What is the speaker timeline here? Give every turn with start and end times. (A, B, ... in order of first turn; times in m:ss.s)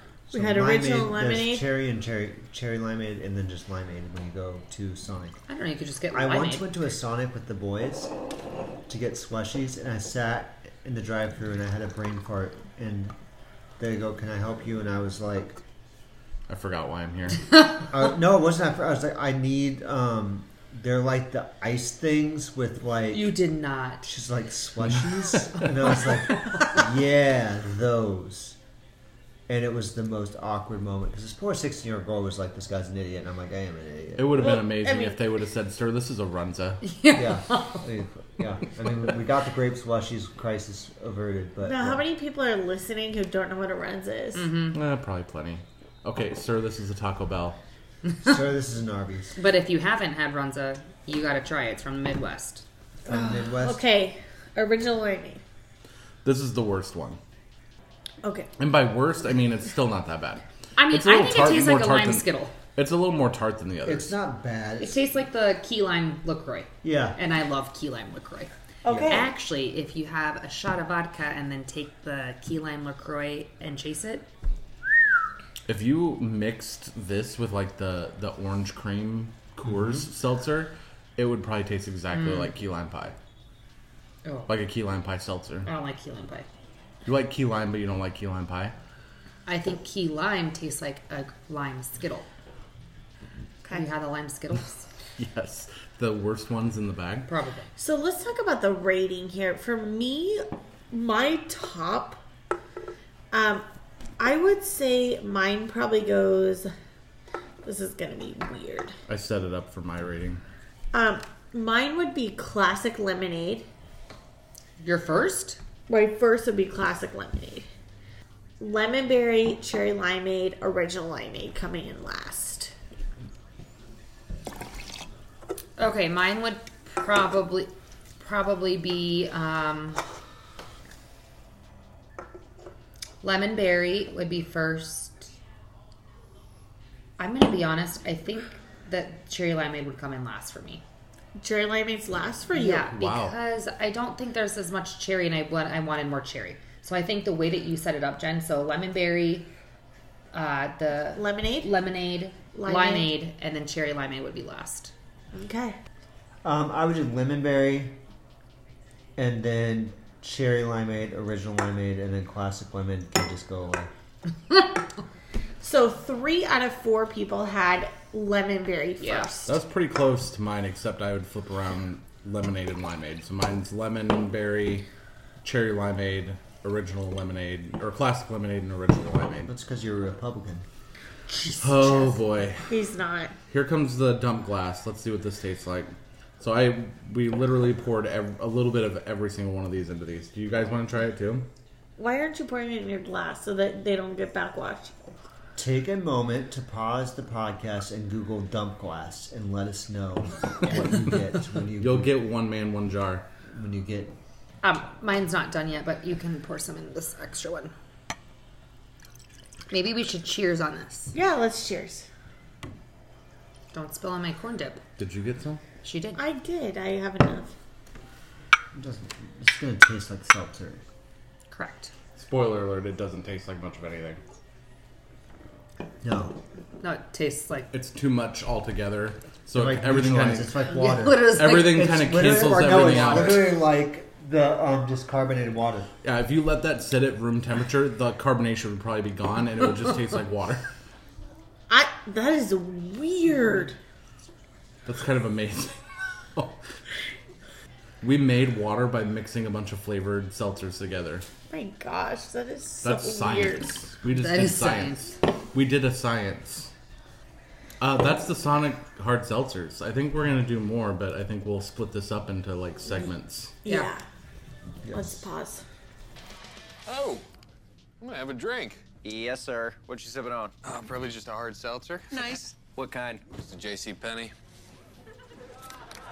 0:00.3-0:05.4 A
0:00.3-0:01.6 B
0:05.5-0:06.7 C
0:06.1-0:08.1 A
0:08.9-0:13.1 A
0:13.8-0:15.6 A
0:16.5-0:17.4 D
0:17.9-0:23.4 A
0:23.1-0:24.1 C
0:24.0-0:28.6 A
0:29.5-0:34.6 A
0:34.2-0:36.8 D
0:34.4-0:35.2 B
0:36.8-0:37.8 C
0:37.1-0:42.0 A
0:41.6-0:44.5 B
0:44.3-0:44.8 C
0:44.7-0:47.6 D
0:48.2-0:49.4 A
0:49.4-0:52.6 C
0:53.0-0:53.8 A
0:53.1-0:55.4 B
0:56.2-0:57.2 D
0:58.2-0:58.5 B
0:58.6-1:04.1 D
1:00.8-1:02.5 C
1:03.8-1:05.0 A
1:04.8-1:08.5 C
1:06.8-1:07.2 A
1:08.8-1:09.3 B
1:08.8-1:09.2 A
1:09.0-1:14.3 C
1:15.7-1:23.1 D
1:22.1-1:22.5 C
1:24.2-1:24.5 C
1:24.5-1:25.7 D
1:25.6-1:26.5 C
1:27.0-1:28.7 D
1:29.4-1:32.3 C
1:33.7-1:34.8 C
1:35.2-1:37.3 D
1:37.3-1:37.7 C
1:37.8-1:42.2 B
1:43.3-1:43.6 B
1:44.2-1:46.7 B
1:47.6-1:48.9 B
1:49.1-1:50.4 D
1:50.9-1:53.6 B
1:54.8-1:55.6 C
1:55.9-1:57.6 B
1:58.6-2:02.7 B
2:05.8-2:10.0 C
2:13.2-2:15.3 C
2:17.2-2:20.8 C
2:21.4-2:22.9 B
2:22.5-2:29.5 C
2:22.9-2:23.3 D
2:30.3-2:34.9 C
2:31.1-2:31.7 B
2:32.5-2:33.1 B
2:35.3-2:35.8 B
2:36.4-2:38.0 A
2:39.2-2:43.9 A
2:45.6-2:49.5 B
2:49.0-2:49.3 C
2:49.4-2:54.9 D
2:55.4-2:59.5 D
2:59.4-3:00.6 A
3:01.4-3:02.1 B
3:01.6-3:02.8 D
3:02.7-3:03.3 B
3:03.5-3:11.5 D
3:12.0-3:14.9 B
3:15.6-3:22.1 A
3:20.7-3:21.1 D
3:21.8-3:23.2 D
3:23.5-3:24.1 A
3:24.6-3:27.7 C
3:29.7-3:31.1 C
3:31.1-3:32.1 B
3:33.7-3:34.8 C
3:35.0-3:35.6 D
3:35.8-3:36.2 C
3:36.2-3:37.5 B
3:38.7-3:40.8 A
3:41.5-3:41.9 C
3:42.2-3:44.2 D
3:46.0-3:46.4 A
3:46.8-3:47.7 C
3:47.7-3:50.6 D
3:49.5-3:55.9 A
3:50.6-3:53.4 C
3:51.3-3:53.6 D
3:56.0-4:00.6 D
4:01.7-4:03.8 B
4:04.8-4:05.8 D
4:06.3-4:06.7 D
4:08.0-4:11.2 D
4:11.5-4:13.6 B
4:12.8-4:16.7 D
4:14.1-4:15.1 C
4:17.8-4:23.6 D
4:23.6-4:24.0 B
4:23.6-4:23.9 C
4:24.8-4:25.2 A
4:24.9-4:25.6 B
4:26.8-4:27.2 E
4:28.0-4:28.8 E
4:29.0-4:30.5 F
4:30.6-4:32.5 E
4:32.1-4:33.2 F
4:33.3-4:34.3 E